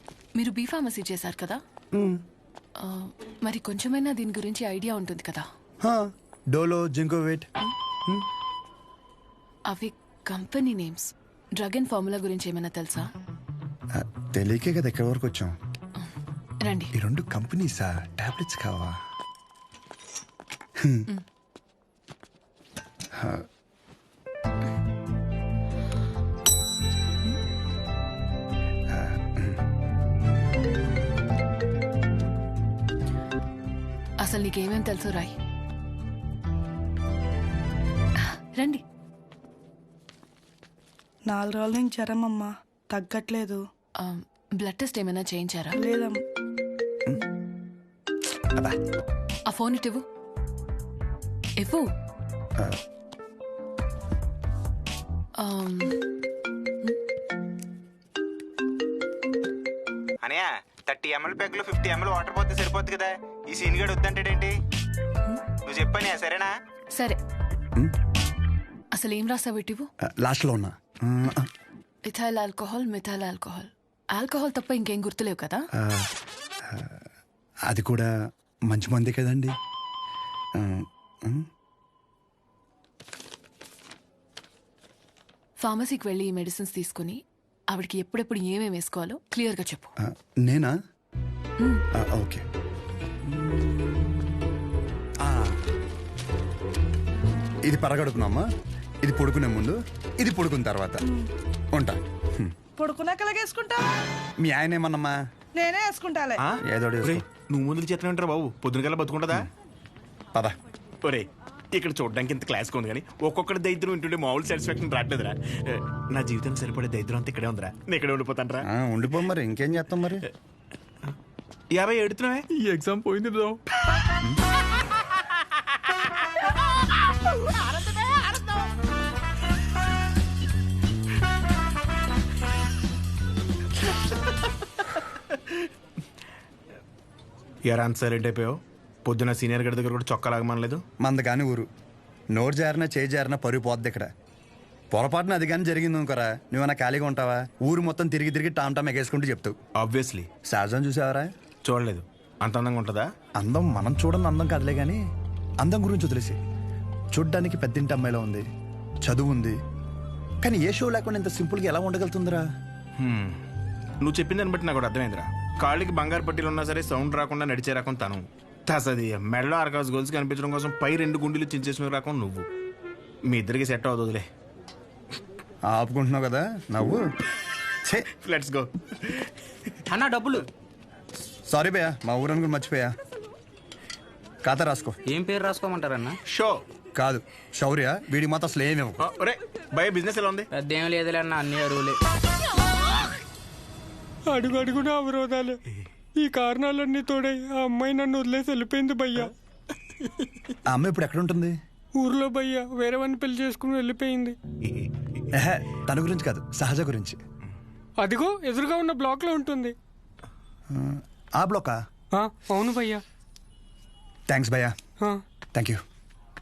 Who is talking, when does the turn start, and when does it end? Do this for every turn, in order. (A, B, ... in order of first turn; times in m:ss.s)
0:00.4-0:01.6 A
0:02.8-0:05.4 A
0:05.8-0:07.5 B
0:09.7-0:13.1 A
0:14.0-0:15.5 B
0:16.6-0:16.9 A
0:16.9-0:19.0 B
0:20.8-0:21.1 B
0:23.2-0:23.4 B
0:28.9-0:29.6 B
0:34.2-0:35.3 A
0:38.2-0:38.8 A
0:41.3-0:43.6 C
0:44.0-0:45.8 A
0:45.7-0:46.2 C
0:49.5-0:50.0 A
0:51.6-0:51.8 A
0:55.4-0:56.0 A
1:00.2-1:04.5 D
1:05.6-1:06.5 D
1:06.9-1:07.2 A
1:08.9-1:09.9 A
1:10.0-1:11.5 B
1:12.0-1:15.6 A
1:15.8-1:16.1 B
1:16.7-1:17.0 B
1:17.7-1:18.1 B
1:18.7-1:19.5 B
1:20.6-1:21.4 B
1:25.6-1:27.2 A
1:27.7-1:29.9 A
1:30.0-1:30.7 B
1:32.0-1:32.4 B
1:33.2-1:34.3 B
1:35.2-1:35.6 B
1:37.7-1:38.4 B
1:39.0-1:41.0 B
1:41.8-1:42.5 B
1:42.8-1:43.8 C
1:44.4-1:45.2 B
1:45.6-1:46.3 C
1:46.4-1:49.5 E
1:46.6-1:47.2 B
1:51.0-1:58.6 E
1:58.7-2:00.2 B
2:01.7-2:03.5 E
2:07.8-2:08.3 E
2:17.6-2:20.8 E
2:21.0-2:21.7 B
2:22.3-2:24.1 B
2:24.9-2:29.6 B
2:29.8-2:30.3 E
2:30.5-2:31.3 B
2:31.6-2:33.1 E
2:33.4-2:35.0 B
2:35.6-2:36.4 B
2:37.1-2:38.4 B
2:39.0-2:39.6 B
2:40.4-2:42.4 B
2:43.0-2:43.4 E
2:44.0-2:52.5 E
2:53.3-2:54.3 E
2:55.7-2:57.0 B
2:58.2-2:59.3 E
2:59.9-3:00.4 F
3:01.5-3:02.9 B
3:04.4-3:05.0 B
3:05.1-3:06.2 F
3:06.3-3:06.6 E
3:07.0-3:09.0 B
3:09.0-3:10.5 E
3:10.5-3:12.0 F
3:14.3-3:15.6 G
3:16.2-3:19.3 G
3:20.7-3:21.5 B
3:22.0-3:24.4 G
3:24.6-3:24.9 E
3:25.3-3:27.2 B
3:28.0-3:29.7 G
3:30.7-3:31.8 B
3:32.1-3:33.0 G
3:34.3-3:34.7 B
3:35.5-3:35.8 B